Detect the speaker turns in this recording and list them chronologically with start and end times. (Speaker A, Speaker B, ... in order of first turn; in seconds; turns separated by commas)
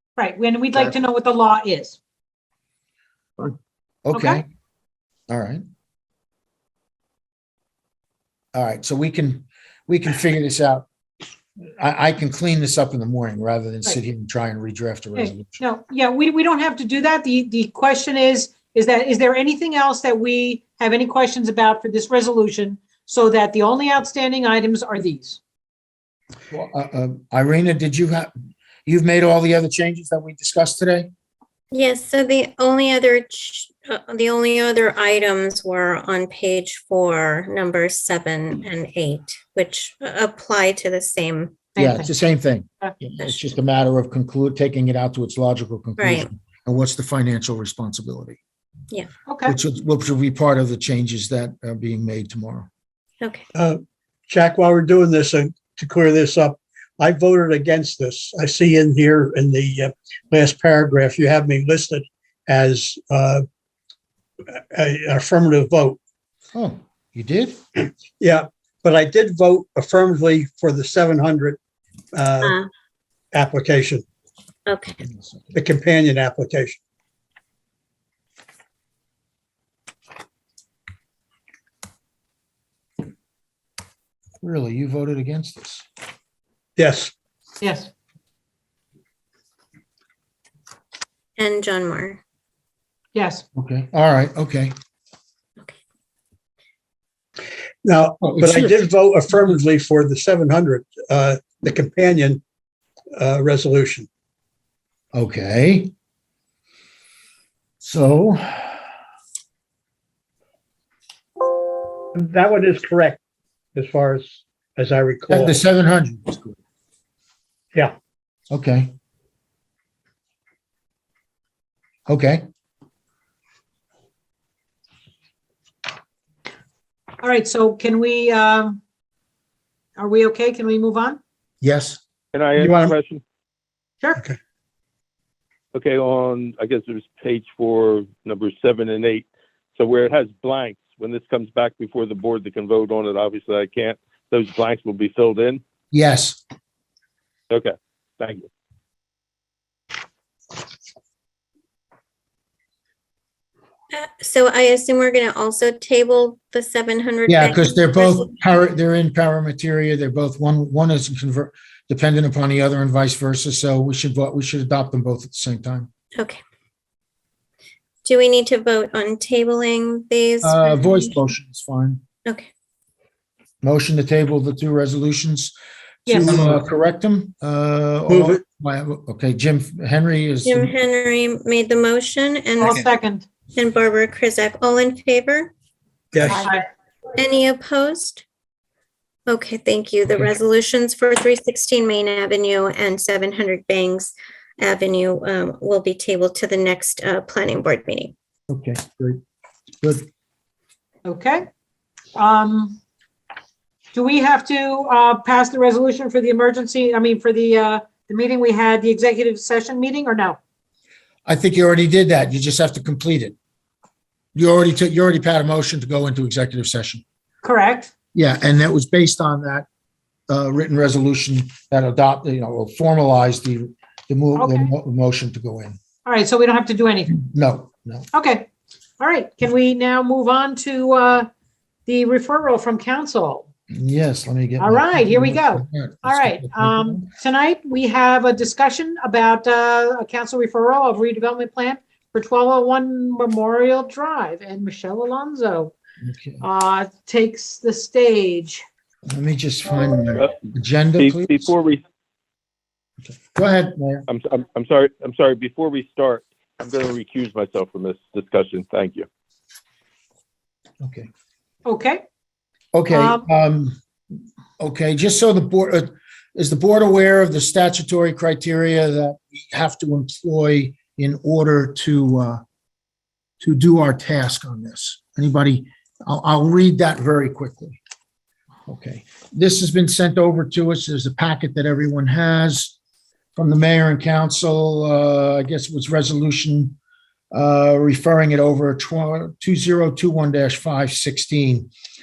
Speaker A: 0.2-2.0, Speaker B: 3.4-4.5, Speaker A: 4.1-4.4, Speaker B: 5.3-5.6, Speaker B: 8.5-10.9, Speaker B: 11.8-15.6, Speaker A: 15.2-25.4, Speaker B: 26.5-28.3, Speaker B: 28.9-31.1, Speaker C: 31.7-41.7, Speaker A: 41.7-42.1, Speaker B: 41.8-48.4, Speaker C: 46.0-46.3, Speaker A: 49.3-49.6, Speaker B: 49.5-52.7, Speaker C: 53.2-53.5, Speaker D: 53.6-63.4, Speaker D: 64.5-66.0, Speaker B: 66.5-67.6, Speaker D: 68.2-71.6, Speaker D: 72.1-72.5, Speaker C: 72.4-72.7, Speaker D: 73.3-74.0, Speaker C: 74.7-75.0, Speaker B: 75.1-75.5, Speaker D: 75.5-76.8, Speaker B: 84.4-85.8, Speaker D: 86.8-87.1, Speaker A: 87.6-87.9, Speaker C: 91.4-92.2, Speaker A: 93.1-93.5, Speaker B: 93.6-94.7, Speaker D: 97.8-102.4, Speaker B: 98.2-98.8, Speaker D: 103.2-104.1, Speaker B: 105.1-105.9, Speaker B: 107.8-108.7, Speaker D: 112.2-113.2, Speaker D: 113.8-115.6, Speaker B: 115.3-116.6, Speaker B: 118.5-118.9, Speaker B: 122.1-122.4, Speaker A: 127.2-128.8, Speaker A: 130.0-131.2, Speaker B: 131.6-132.0, Speaker E: 132.3-133.2, Speaker D: 132.6-133.0, Speaker E: 135.7-145.6, Speaker B: 145.9-146.4, Speaker E: 147.5-148.5, Speaker C: 153.9-158.3, Speaker B: 157.3-165.9, Speaker C: 166.2-166.4, Speaker C: 168.1-171.2, Speaker B: 170.4-172.0, Speaker B: 173.6-175.5, Speaker A: 176.1-176.4, Speaker B: 176.1-180.7, Speaker D: 176.3-176.6, Speaker D: 178.1-178.4, Speaker C: 180.4-182.8, Speaker A: 182.6-183.3, Speaker C: 183.6-185.5, Speaker D: 186.1-186.5, Speaker A: 186.3-186.7, Speaker C: 187.1-188.2, Speaker C: 189.3-198.1, Speaker B: 198.5-199.2, Speaker A: 201.1-201.5, Speaker A: 202.2-202.8, Speaker A: 203.9-210.4, Speaker B: 211.3-213.3, Speaker B: 214.3-217.0, Speaker A: 217.4-217.9, Speaker B: 218.1-219.7, Speaker B: 220.3-225.8, Speaker A: 224.3-224.7, Speaker A: 226.1-227.2, Speaker B: 227.1-228.1, Speaker A: 228.1-231.3, Speaker A: 231.9-233.5, Speaker B: 233.7-237.1, Speaker A: 234.6-245.7, Speaker B: 246.0-246.4, Speaker A: 246.4-248.7, Speaker B: 249.1-251.4, Speaker E: 251.0-251.8, Speaker B: 253.2-254.1, Speaker E: 254.1-259.1, Speaker B: 260.8-261.1, Speaker A: 261.6-262.0, Speaker B: 262.7-263.8, Speaker A: 262.9-263.2, Speaker B: 264.6-272.4, Speaker B: 273.4-277.8, Speaker B: 278.7-282.8, Speaker B: 283.4-286.8, Speaker B: 287.3-291.7